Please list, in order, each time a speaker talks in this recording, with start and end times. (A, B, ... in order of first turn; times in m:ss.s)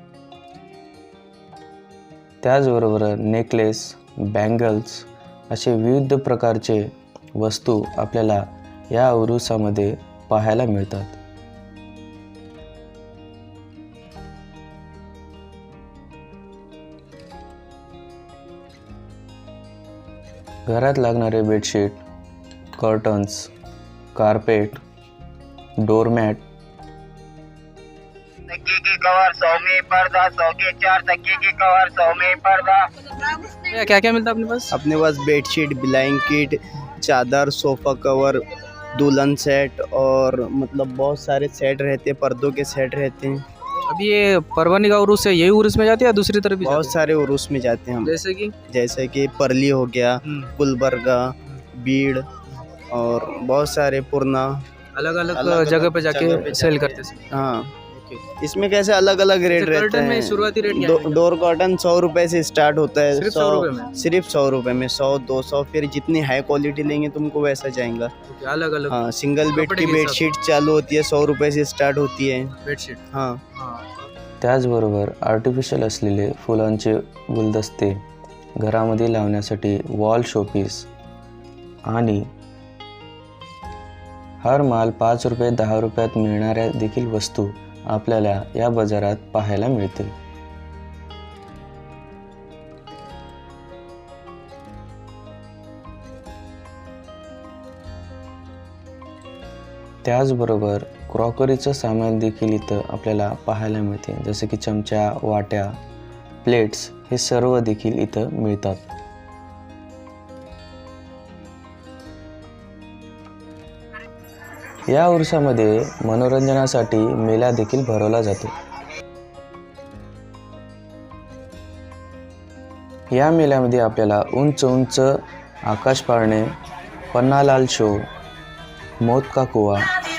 0:02.4-0:11.2 A
0:20.7-0:22.0 A
0:22.8-0:23.5 A
0:24.2-0:24.8 A
0:25.8-0:26.4 A
0:28.5-0:32.9 B
0:33.4-0:34.8 C
0:34.7-0:43.4 D
0:43.9-0:47.0 C
0:46.6-0:48.2 D
0:48.0-0:48.6 C
0:48.7-0:52.3 D
0:50.2-0:50.5 C
0:52.9-0:54.6 D
0:55.0-0:57.3 C
0:55.3-0:57.7 D
0:57.9-0:58.2 C
0:58.4-1:08.1 D
0:59.5-1:01.2 C
1:03.1-1:03.9 C
1:08.3-1:10.3 C
1:08.9-1:12.6 D
1:12.6-1:13.0 C
1:13.1-1:13.4 D
1:13.6-1:13.9 C
1:14.4-1:18.0 A
1:18.6-1:20.9 A
1:21.9-1:22.3 A
1:24.4-1:30.2 A
1:40.0-1:45.8 A
1:46.4-1:48.9 A
1:54.9-1:58.5 A
2:03.1-2:05.1 A
2:05.7-2:06.5 A
2:07.1-2:08.0 A
2:09.0-2:09.9 A